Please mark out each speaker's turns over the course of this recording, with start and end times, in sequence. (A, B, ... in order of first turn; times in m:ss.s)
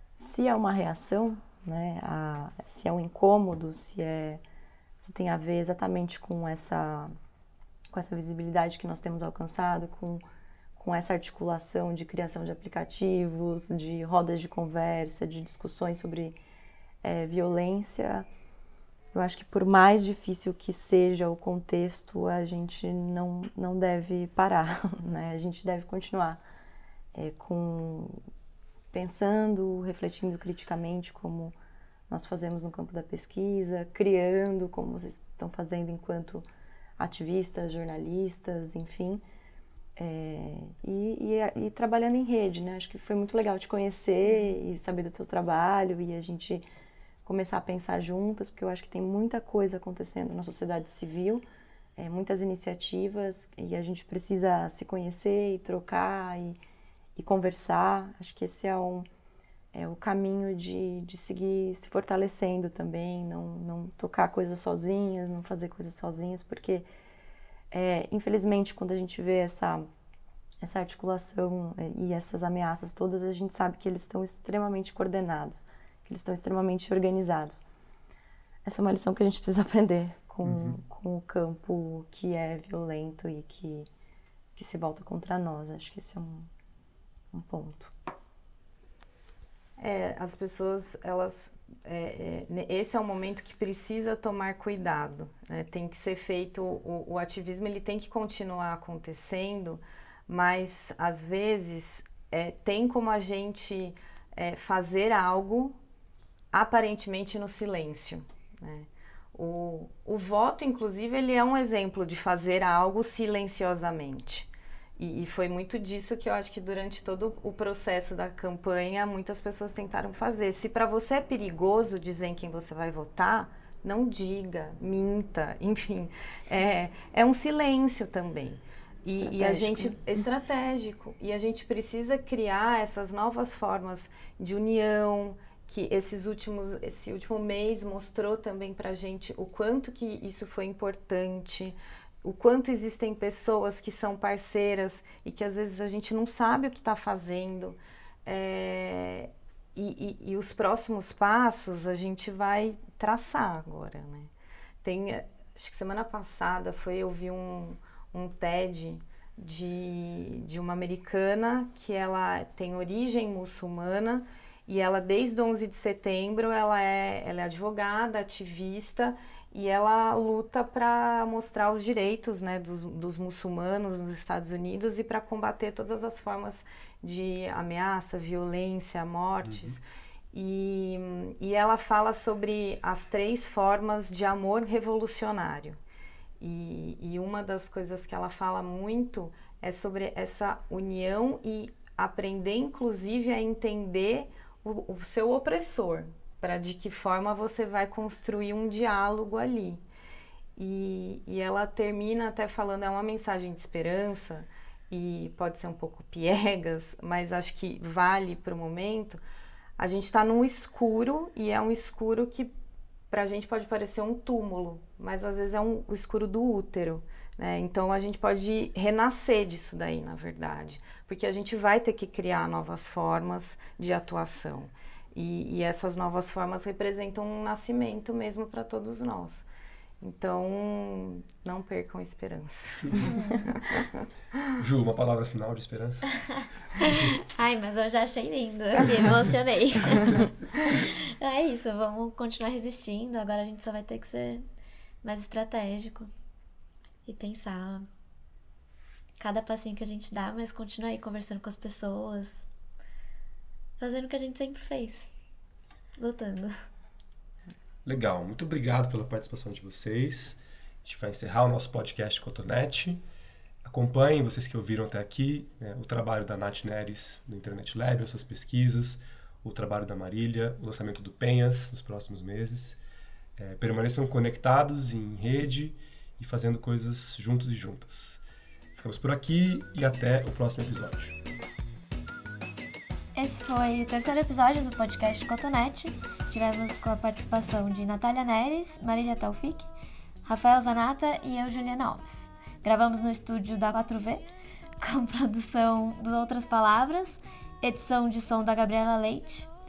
0:00.2-0:04.4 A
0:05.0-0:07.1 A
0:07.9-0:10.2 A
0:10.8-0:16.4 A
0:17.0-0:18.3 A
0:19.1-0:26.4 A
0:27.1-0:28.2 A
0:28.9-0:31.5 A
0:32.1-0:36.5 A
0:37.0-0:39.2 A
0:40.0-0:46.6 A
0:47.2-0:51.4 A
0:52.0-0:56.6 A
0:57.2-0:59.1 A
0:59.7-1:06.9 A
1:07.7-1:09.9 A
1:10.6-1:17.7 A
1:18.6-1:23.9 A
1:20.4-1:20.8 B
1:24.6-1:26.5 A
1:27.3-1:27.9 A
1:29.8-1:45.8 C
1:46.5-2:34.3 C
2:09.2-2:10.0 A
2:34.8-2:59.8 C
2:59.4-2:59.8 B
3:00.3-3:05.8 C
3:06.4-3:19.8 C
3:20.6-3:29.2 C
3:29.8-3:32.5 C
3:33.1-3:49.5 C
3:50.0-3:53.9 C
3:54.6-3:56.1 B
3:56.8-4:04.4 D
4:05.0-4:06.1 D
4:07.1-4:07.9 D
4:09.2-4:12.4 D
4:13.8-4:15.1 D
4:16.0-4:16.6 D
4:17.8-4:23.0 B
4:23.6-4:32.8 B
4:33.4-4:38.2 B
4:38.8-4:41.2 B
4:43.2-4:49.7 D
4:50.2-4:54.2 D
4:54.8-4:59.5 D